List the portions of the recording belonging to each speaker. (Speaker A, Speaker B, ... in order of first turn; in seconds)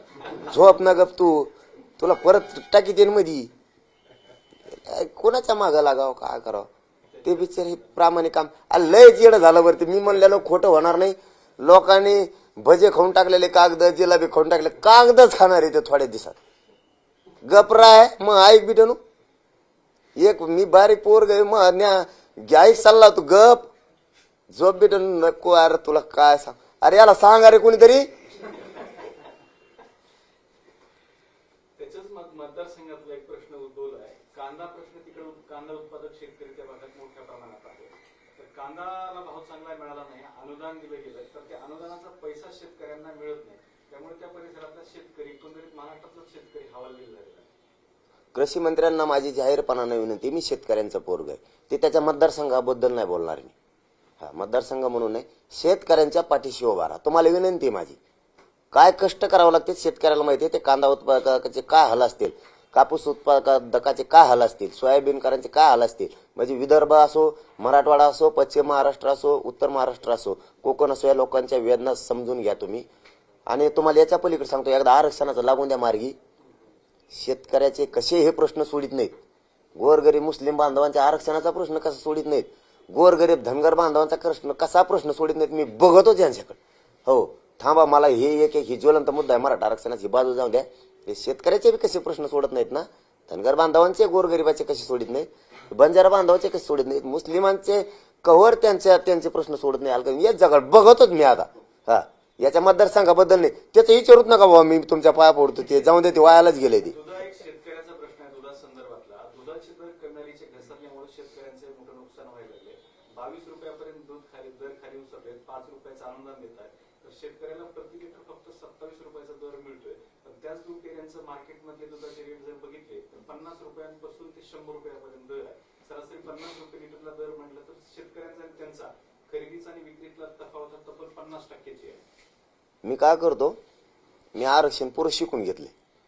Speaker A: 0.4-3.5, 4.7-6.7, 7.2-16.4, 17.4-19.0, 20.1-23.7, 24.5-28.1, 48.3-53.5, 54.2-58.0, 58.7-72.9, 73.5-76.2, 77.1-79.1, 79.7-106.9, 132.8-133.6, 134.3-135.7
Speaker B: 7.1-7.8, 31.8-47.5, 106.8-132.0